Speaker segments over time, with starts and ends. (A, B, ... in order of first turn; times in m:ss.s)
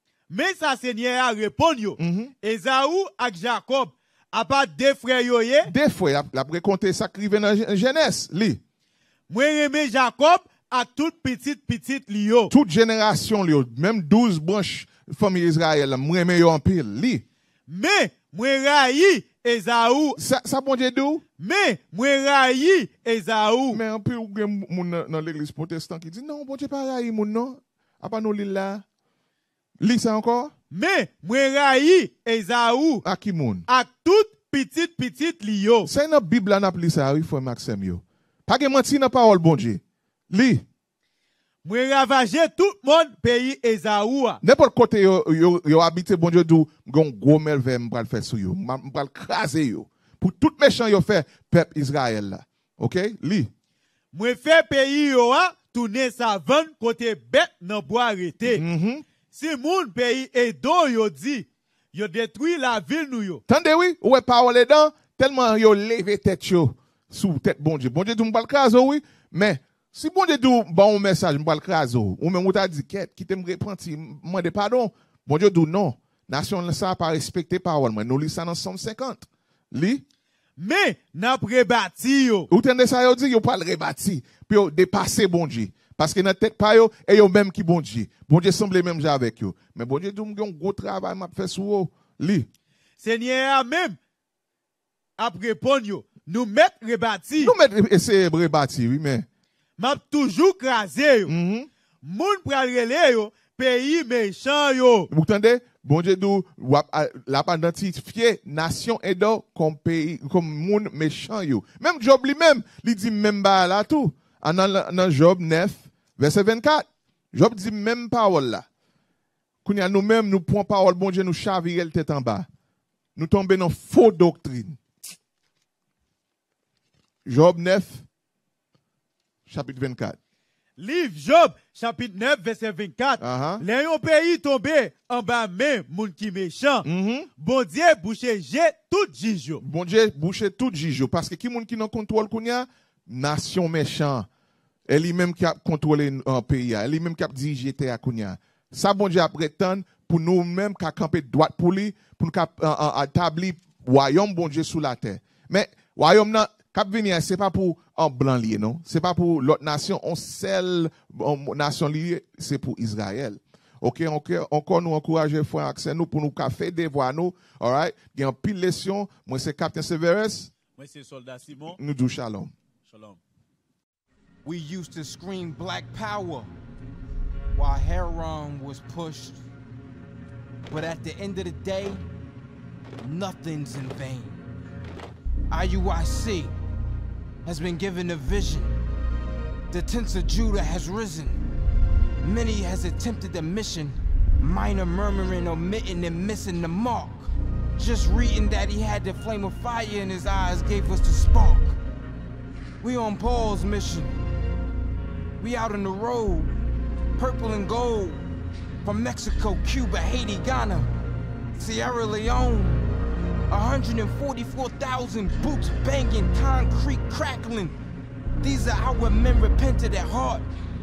0:00.3-0:05.7 A
0:02.0-0:02.3 B
0:05.7-0:08.6 B
0:09.3-0:12.5 A
0:12.5-0:17.2 B
0:17.7-0:20.2 A
0:20.2-0:21.2 B
0:21.4-0:23.8 A
0:23.7-0:28.8 B
0:29.8-0:30.5 B
0:30.7-0:33.0 A
0:33.0-0:33.6 B
0:33.7-0:35.9 A
0:35.8-0:40.6 B
0:41.6-0:44.4 A
0:44.4-0:53.5 B
0:54.1-0:58.6 A
0:58.4-0:59.0 B
0:59.3-1:03.4 A
1:03.5-1:20.0 B
1:20.6-1:22.5 A
1:22.5-1:32.5 B
1:33.0-1:34.0 A
1:35.2-1:37.5 A
1:37.4-1:39.2 B
1:39.8-1:41.3 A
1:41.3-1:41.7 B
1:42.0-1:45.1 A
1:45.1-1:58.6 B
1:59.6-2:02.5 B
2:03.2-2:04.8 B
2:07.2-2:08.0 B
2:09.5-2:10.2 B
2:10.8-2:16.8 A
2:13.2-2:13.6 B
2:16.8-2:17.3 B
2:17.4-2:19.6 A
2:19.6-2:24.3 B
2:24.9-2:50.5 B
2:50.8-2:51.8 A
2:51.8-2:52.5 B
2:52.8-2:53.2 A
2:54.4-2:56.5 C
2:57.5-2:59.4 C
3:00.7-3:02.0 C
3:03.0-3:04.4 C
3:05.5-3:06.5 C
3:07.4-3:08.8 C
3:09.7-3:11.5 C
3:12.2-3:21.8 C
3:22.8-3:24.2 C
3:25.4-3:26.5 C
3:27.2-3:28.2 C
3:28.8-3:30.9 C
3:31.5-3:32.8 C
3:33.5-3:37.8 C
3:38.4-3:40.4 C